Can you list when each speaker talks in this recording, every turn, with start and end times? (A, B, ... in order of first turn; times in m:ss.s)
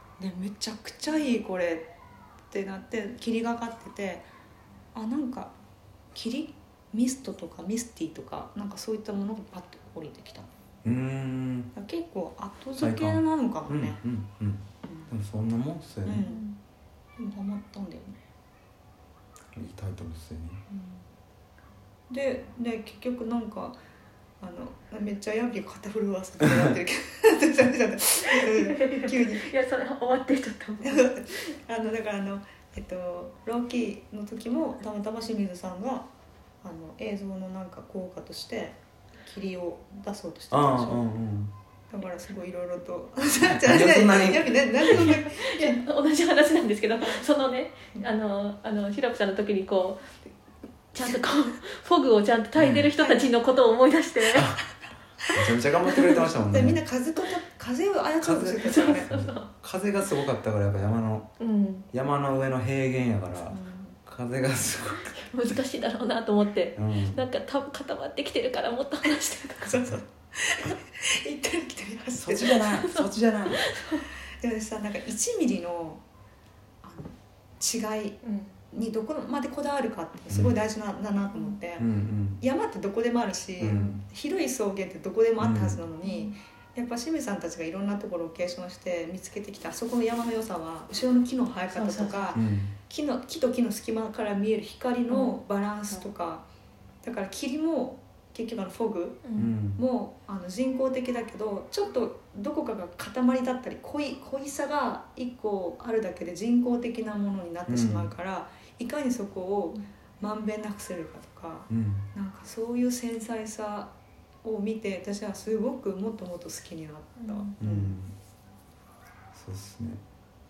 0:00.2-0:01.9 A
0:02.5-0:04.3 A
0:04.9-0:05.5 A
0:06.1-0:10.5 A
0:10.8-0:11.7 B
0:11.7-0:14.0 A
0:12.8-0:16.3 B
0:16.0-0:16.5 A
0:16.2-0:16.6 C
0:17.2-0:18.2 A
0:19.5-0:20.6 B
0:20.7-0:21.0 A
0:22.1-0:23.8 A
0:24.4-0:29.5 A
0:28.4-0:31.4 C
0:30.8-0:36.1 A
0:36.6-0:41.0 A
0:40.5-0:41.5 B
0:41.9-0:45.8 A
0:43.4-0:45.2 B
0:44.9-0:50.3 C
0:50.9-0:54.5 C
0:52.6-0:52.9 B
0:53.0-0:53.3 A
0:54.3-0:54.6 B
0:55.2-0:59.2 A
0:55.3-0:56.8 B
0:58.2-1:01.3 B
0:58.7-0:59.5 C
1:01.4-1:01.9 C
1:01.9-1:05.2 B
1:03.5-1:04.0 A
1:05.0-1:09.8 C
1:06.8-1:07.2 B
1:09.6-1:12.7 A
1:12.2-1:13.7 B
1:12.6-1:14.1 C
1:14.4-1:16.0 A
1:16.8-1:18.2 A
1:18.2-1:18.5 C
1:18.7-1:21.9 A
1:20.3-1:20.6 B
1:21.8-1:22.4 B
1:22.4-1:36.5 A
1:23.6-1:24.0 B
1:25.4-1:25.8 B
1:26.0-1:26.4 C
1:31.7-1:32.4 C
1:32.3-1:32.7 B
1:35.1-1:35.4 C
1:37.0-1:39.2 A
1:39.2-1:39.5 C
1:39.4-1:39.8 B
1:39.8-1:53.9 A
1:47.7-1:48.1 B
1:51.7-1:52.1 B
1:54.4-1:58.0 A
1:57.2-1:57.5 C
1:57.6-1:58.2 B
1:59.3-2:00.0 B